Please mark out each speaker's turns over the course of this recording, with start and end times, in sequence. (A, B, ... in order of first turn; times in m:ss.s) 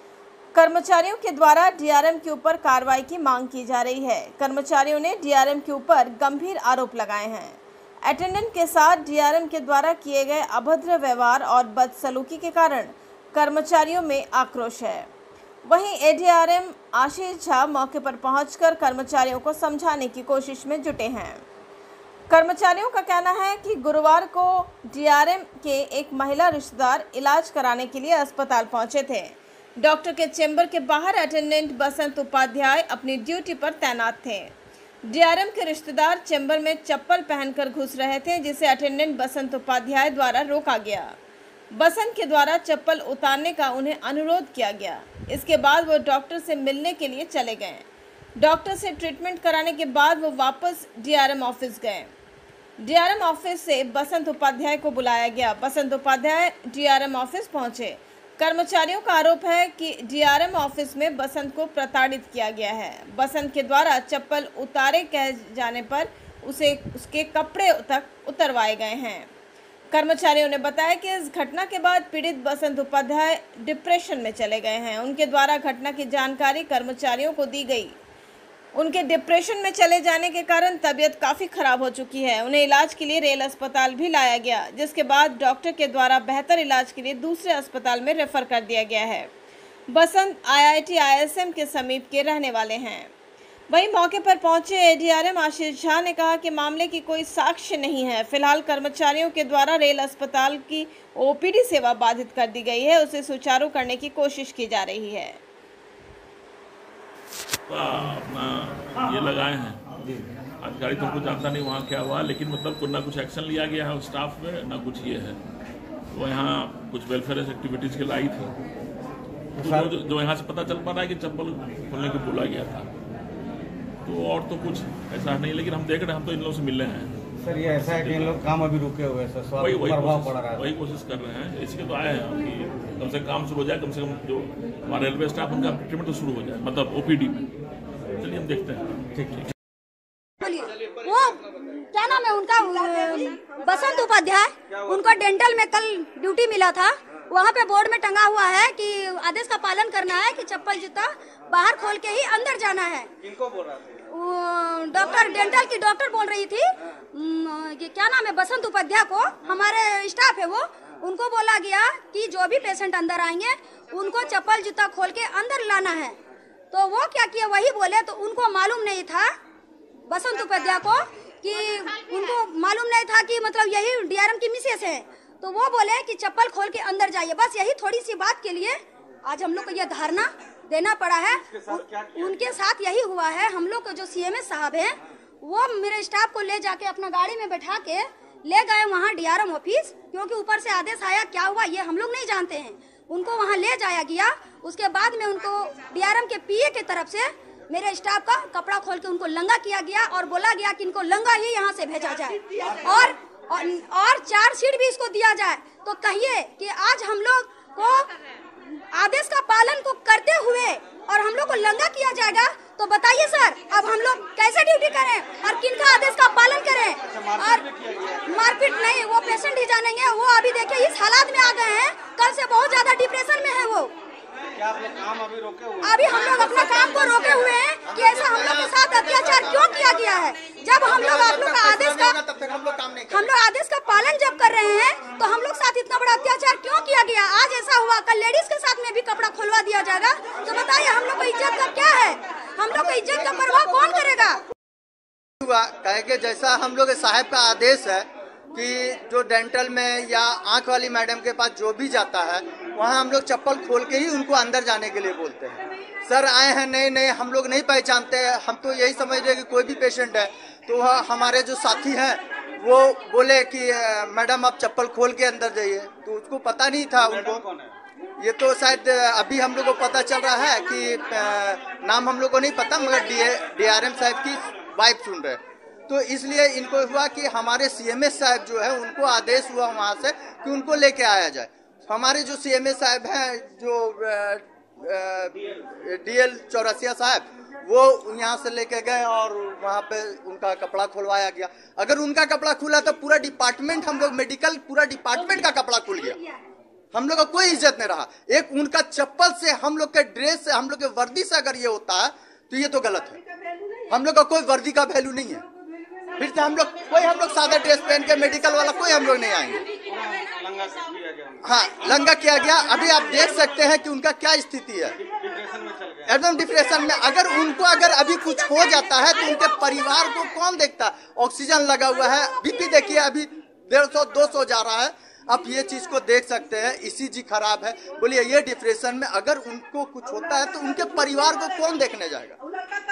0:00.6-0:15.1 A
0:15.6-0:21.4 A
0:22.3-0:34.5 A
0:35.0-0:41.2 A
0:41.7-0:47.9 A
0:48.4-0:52.1 A
0:52.8-1:09.3 A
1:09.9-1:18.0 A
1:18.8-1:29.3 A
1:29.9-1:33.1 A
1:33.7-1:45.4 A
1:47.7-1:49.8 B
1:50.6-1:55.4 B
1:56.1-1:58.5 B
1:59.6-2:02.9 B
1:59.6-1:59.9 C
2:04.0-2:08.5 B
2:07.4-2:10.6 C
2:09.6-2:17.5 B
2:18.2-2:19.4 B
2:20.4-2:33.1 D
2:33.2-2:34.0 C
2:34.1-2:46.2 D
2:46.7-2:49.3 D
2:50.1-3:28.1 D
3:01.5-3:02.4 C
3:22.6-3:22.9 C
3:28.9-3:37.7 D
3:37.1-3:38.3 C
3:38.3-3:43.9 D
3:44.6-3:46.3 C
3:45.8-3:52.2 D
3:46.1-3:49.8 E
3:50.8-3:53.3 E
3:53.1-4:04.4 D
4:02.7-4:04.1 E
4:05.4-4:27.5 E
4:27.0-4:27.7 C
4:28.2-4:56.2 E
4:56.9-5:03.2 E
5:03.9-5:05.4 E
5:06.2-5:09.7 E
5:09.8-5:11.4 C
5:11.4-5:15.0 E
5:15.0-5:16.1 C
5:16.1-5:32.4 E